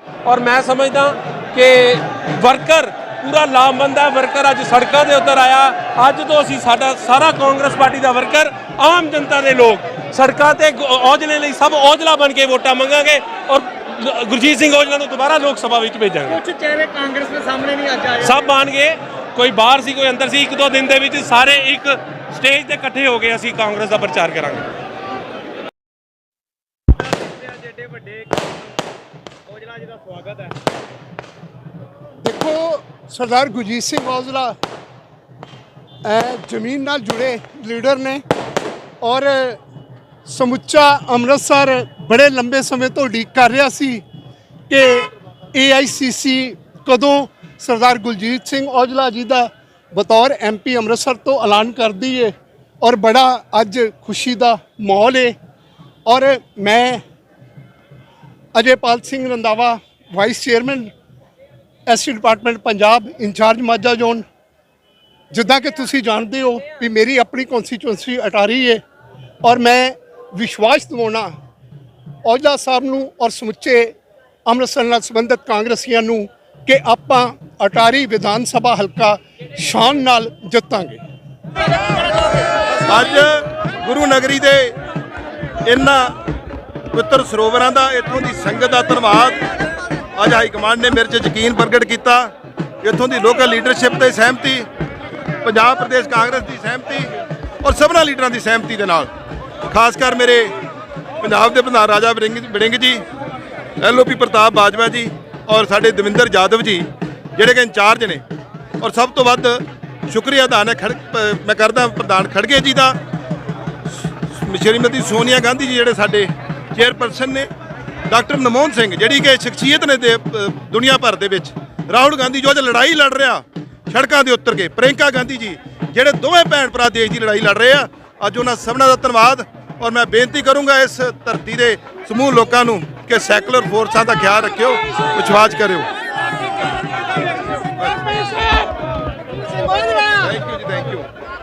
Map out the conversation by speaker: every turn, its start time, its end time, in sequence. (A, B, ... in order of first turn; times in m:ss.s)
0:00.2-0:16.5 A
0:16.5-0:18.1 B
0:18.1-0:24.6 A
0:27.3-0:28.3 B
0:29.5-0:30.5 B
0:32.2-0:34.6 C
0:36.0-0:38.2 C
0:39.0-0:39.6 C
0:40.2-0:44.0 C
0:44.7-0:55.3 C
0:56.0-0:57.0 C
0:58.5-1:00.9 C
1:01.8-1:04.2 C
1:05.3-1:08.8 C
1:09.4-1:11.3 C
1:12.2-1:13.9 C
1:14.4-1:21.0 C
1:22.9-1:24.7 D
1:25.6-1:26.1 D
1:26.9-1:29.4 D
1:30.1-1:32.3 D
1:32.8-1:34.7 D
1:35.4-1:39.1 D
1:39.6-1:40.5 D
1:41.2-1:43.0 D
1:43.8-1:48.2 D
1:48.8-1:53.0 D
1:54.2-1:57.5 D
1:58.1-2:15.9 D
2:17.8-2:18.2 D
2:20.0-2:21.0 D